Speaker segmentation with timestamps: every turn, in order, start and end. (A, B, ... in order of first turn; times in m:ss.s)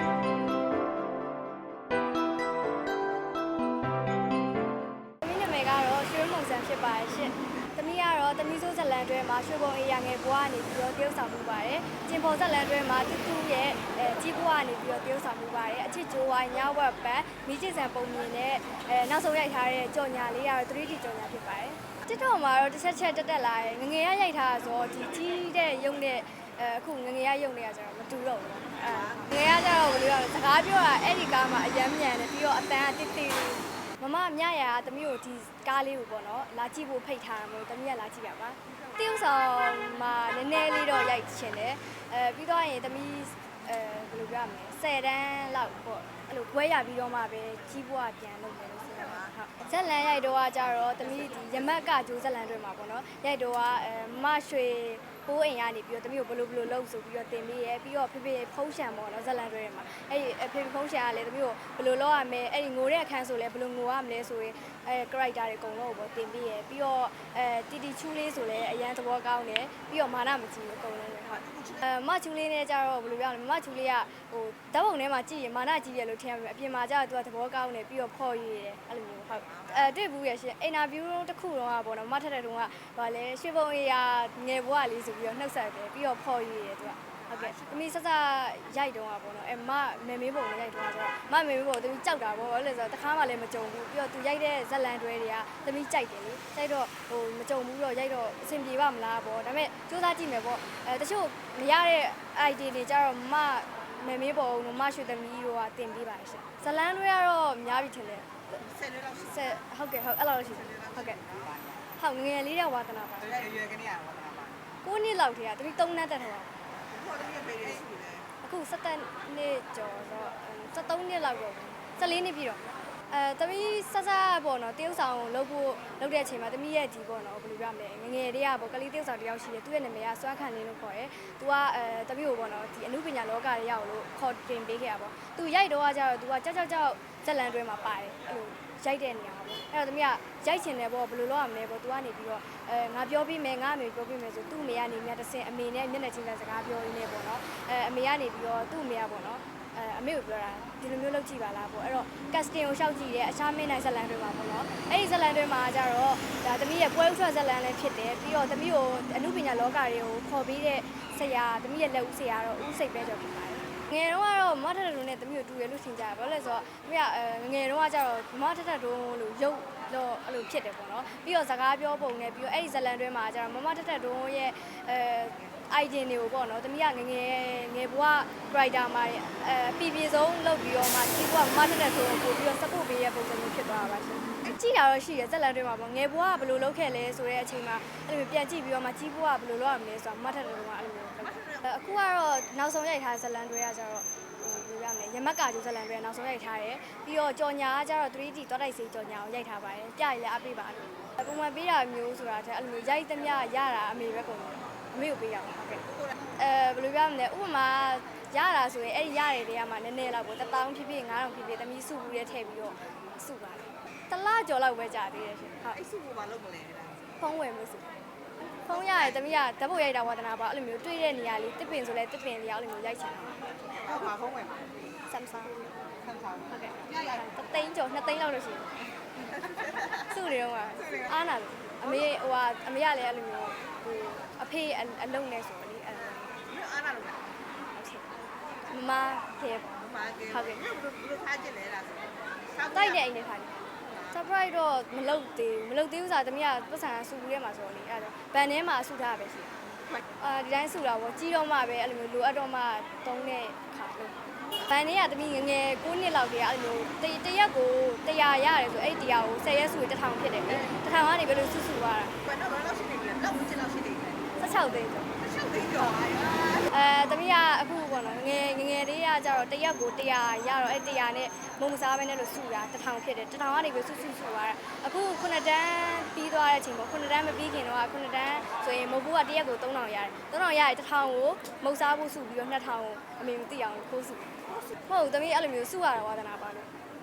0:05.2-1:48.3 A
1:11.3-1:11.8 B
1:19.5-1:19.8 B
1:27.3-1:27.7 B
1:48.6-1:49.3 B
1:49.2-1:51.2 A
1:50.7-1:51.8 B
1:52.0-1:53.6 A
1:53.3-1:54.6 B
1:54.8-1:56.6 A
1:56.9-1:58.3 B
1:58.4-3:25.8 A
3:26.3-3:35.8 A
3:35.7-3:37.2 B
3:37.2-3:37.9 A
3:38.7-3:43.4 A
3:43.6-3:44.8 B
3:45.1-3:45.6 A
3:46.0-3:46.4 B
3:46.5-3:48.8 A
3:49.8-3:56.4 A
3:56.5-3:57.2 B
3:57.7-4:00.6 A
3:59.8-4:02.9 B
4:02.7-4:03.6 A
4:04.1-4:09.6 A
4:10.2-4:22.2 A
4:22.2-4:24.3 B
4:24.4-4:25.2 A
4:25.2-4:26.7 B
4:26.7-4:46.7 A